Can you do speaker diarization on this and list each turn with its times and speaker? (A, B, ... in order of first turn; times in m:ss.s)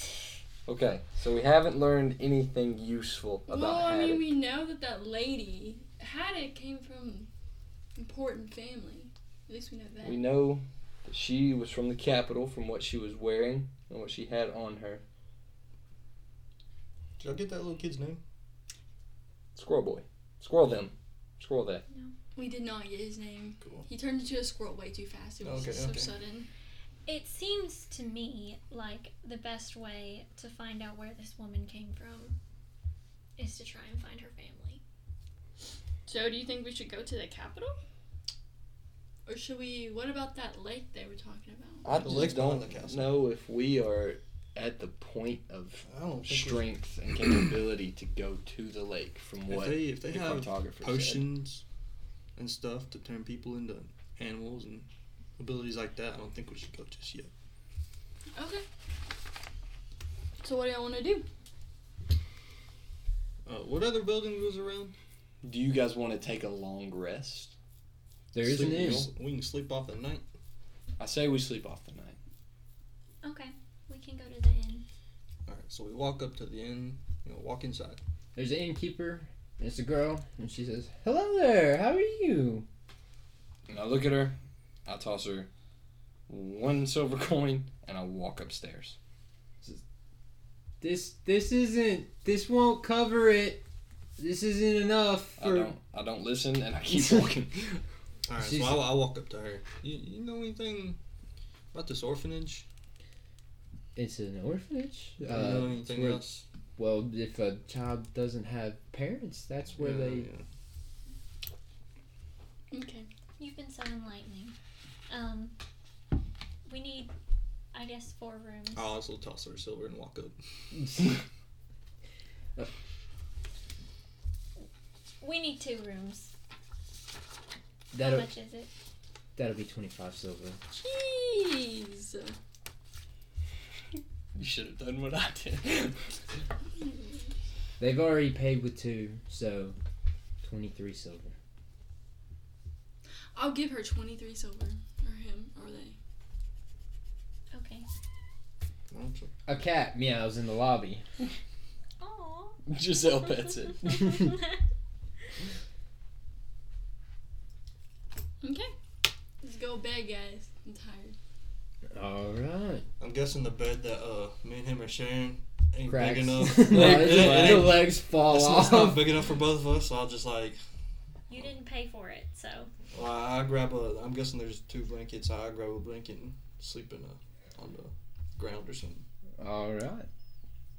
0:00.7-0:04.3 A
0:03.5-0:07.3 B
0:08.0-0:10.2 B
0:10.0-0:15.0 A
0:17.2-0:18.2 C
0:19.6-0:21.8 A
0:22.4-0:26.5 B
0:25.4-0:26.2 C
0:27.1-0:32.4 D
0:33.4-0:34.8 D
0:36.1-0:37.8 B
0:39.3-0:42.0 B
0:41.8-0:51.3 A
0:41.9-0:43.1 C
0:45.9-0:46.7 C
0:49.5-0:51.6 C
0:52.4-0:57.3 C
0:58.3-0:58.6 B
1:00.4-1:01.3 B
1:03.5-1:04.9 C
1:05.4-1:07.6 A
1:08.3-1:09.1 E
1:08.4-1:10.2 C
1:08.4-1:09.1 A
1:11.0-1:12.2 A
1:13.2-1:14.8 D
1:15.5-1:18.0 C
1:18.4-1:22.7 E
1:23.7-1:25.5 A
1:26.3-1:29.0 A
1:30.8-1:33.6 E
1:34.2-1:35.7 E
1:35.4-1:37.8 A
1:38.3-1:41.0 C
1:38.4-1:38.9 E
1:41.7-1:42.7 C
1:44.0-1:50.3 E
1:45.2-1:46.4 C
1:49.8-1:50.4 C
1:52.7-1:53.1 B
1:53.4-1:54.6 D
1:55.1-1:55.5 D
1:56.6-1:57.1 D
1:57.7-1:58.8 D
1:58.7-2:00.4 C
2:00.8-2:01.0 E
2:05.2-2:06.3 D
2:07.9-2:08.3 E
2:08.0-2:08.7 D
2:09.4-2:10.6 E
2:10.7-2:12.4 B
2:14.4-2:16.2 A
2:17.8-2:19.8 E
2:20.4-2:21.3 E
2:23.4-2:26.0 B
2:27.5-2:27.9 D
2:28.9-2:29.3 C
2:29.5-2:31.0 E
2:32.0-2:32.6 D
2:32.7-2:34.1 A
2:33.8-2:34.6 D
2:38.4-2:38.7 B
2:39.4-2:41.2 B
2:41.9-2:42.9 E
2:43.0-2:50.6 C
2:45.9-2:49.1 E
2:51.3-2:52.7 D
2:52.9-2:59.0 C
2:59.4-3:00.1 E